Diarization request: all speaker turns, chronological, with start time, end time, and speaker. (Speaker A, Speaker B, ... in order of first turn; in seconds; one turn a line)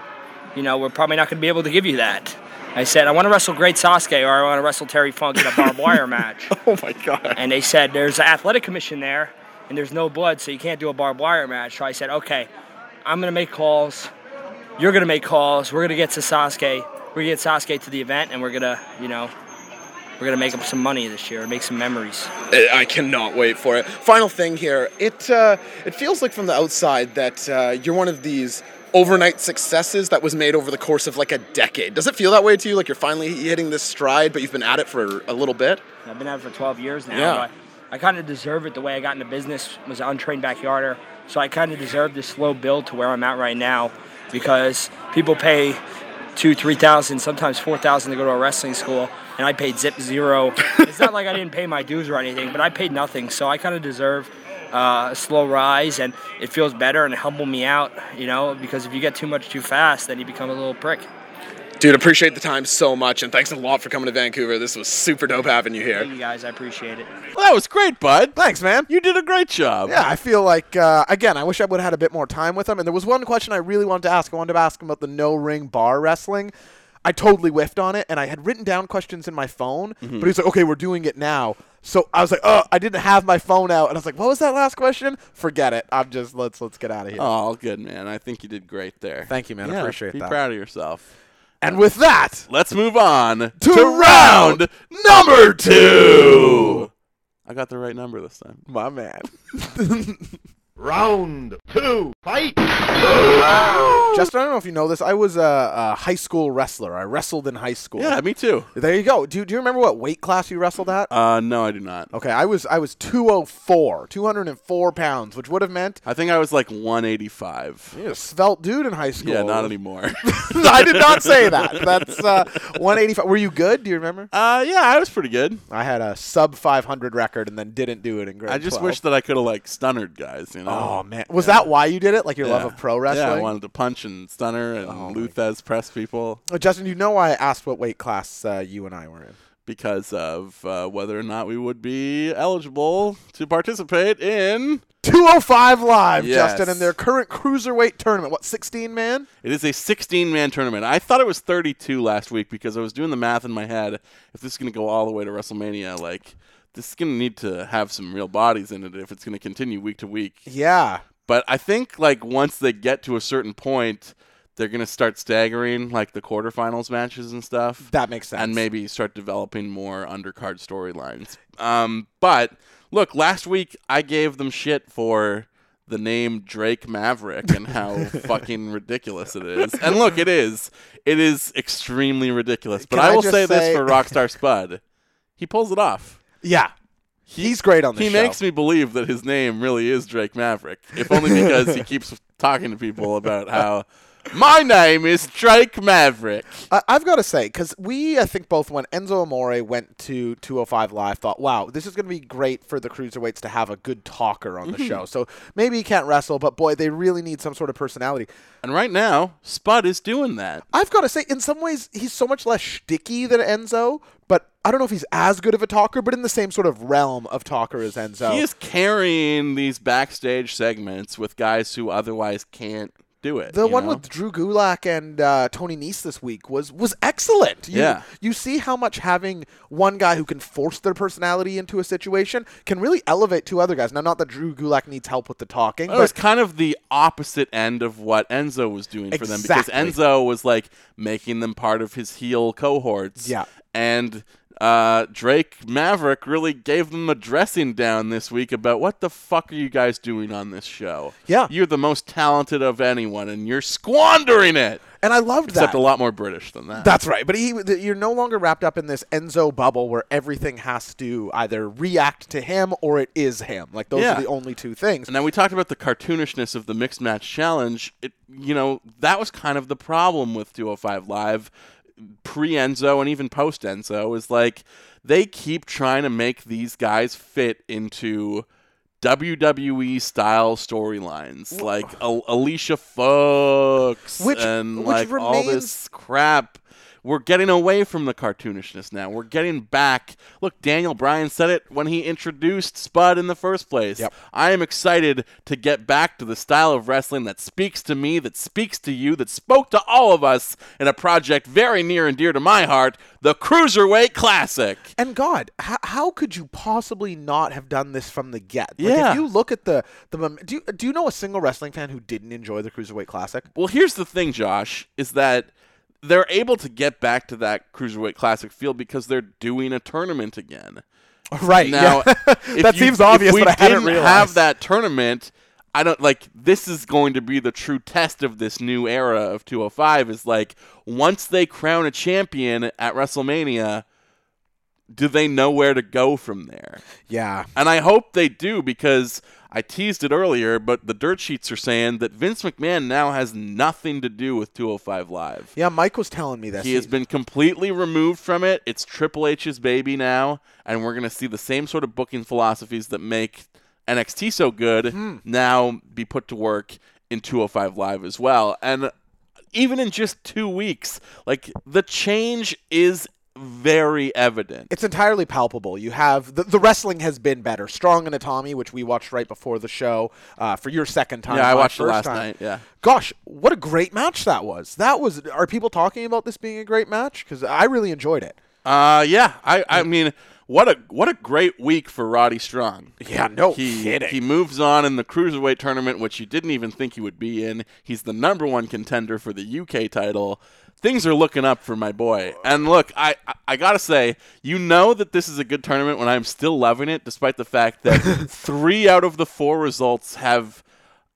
Speaker A: 0.6-6.5
Speaker B: 6.5-7.4
Speaker A: 7.3-12.5
Speaker A: 13.0-14.1
Speaker A: 14.8-19.3
Speaker A: 20.2-22.3
Speaker B: 22.5-35.8
Speaker A: 36.0-45.8
Speaker B: 37.1-37.5
Speaker A: 46.4-61.1
Speaker B: 61.8-66.1
Speaker A: 65.9-67.1
Speaker C: 67.3-70.0
Speaker D: 68.3-68.9
Speaker D: 69.9-76.5
Speaker D: 77.0-87.3
Speaker C: 80.0-80.3
Speaker C: 87.2-91.1
Speaker D: 89.3-90.4
Speaker D: 91.6-92.5
Speaker C: 92.5-96.9
Speaker D: 93.6-96.9
Speaker C: 97.5-98.6
Speaker D: 98.7-100.3
Speaker E: 100.8-104.2
Speaker D: 104.1-108.2
Speaker C: 108.0-108.7
Speaker D: 108.7-111.1
Speaker C: 111.1-112.1
Speaker D: 112.1-116.0
Speaker C: 116.0-118.0
Speaker D: 117.9-119.7
Speaker C: 119.2-122.2
Speaker D: 120.2-124.3
Speaker C: 124.3-125.6
Speaker D: 125.7-129.0
Speaker C: 128.5-131.7
Speaker D: 130.7-133.5
Speaker C: 132.4-136.4
Speaker D: 134.8-135.3
Speaker D: 136.5-139.4
Speaker C: 139.7-144.8
Speaker D: 145.0-149.3
Speaker C: 146.2-146.9
Speaker C: 149.4-160.5
Speaker D: 160.5-161.0
Speaker C: 161.2-184.8
Speaker D: 167.8-168.6
Speaker D: 182.8-184.1
Speaker C: 185.4-186.2
Speaker D: 186.4-186.7
Speaker C: 187.3-196.7
Speaker D: 187.4-188.4
Speaker D: 191.1-191.7
Speaker D: 196.7-208.3
Speaker C: 204.7-205.0
Speaker C: 208.6-210.6
Speaker D: 210.7-218.4
Speaker C: 218.2-224.0
Speaker D: 223.5-236.1
Speaker C: 227.7-228.1
Speaker C: 235.9-254.8
Speaker D: 239.1-240.0
Speaker D: 243.2-243.5
Speaker D: 251.3-251.5
Speaker D: 255.0-255.8
Speaker C: 255.5-257.0
Speaker D: 256.8-265.1
Speaker C: 263.9-264.3
Speaker C: 265.1-278.4
Speaker C: 279.0-304.9
Speaker D: 281.6-281.9
Speaker D: 284.2-285.8
Speaker D: 305.0-313.5
Speaker C: 308.8-309.2
Speaker C: 313.6-315.5
Speaker C: 316.0-320.8
Speaker D: 321.3-324.4
Speaker C: 321.6-333.8
Speaker C: 334.9-336.8
Speaker D: 337.1-337.5
Speaker C: 337.6-345.5
Speaker D: 345.6-346.9
Speaker C: 346.6-358.9
Speaker D: 354.9-355.2
Speaker C: 359.5-364.7
Speaker D: 364.7-372.3
Speaker C: 371.3-372.6
Speaker D: 372.8-378.4
Speaker C: 378.6-382.9
Speaker D: 383.0-384.2
Speaker C: 383.5-400.6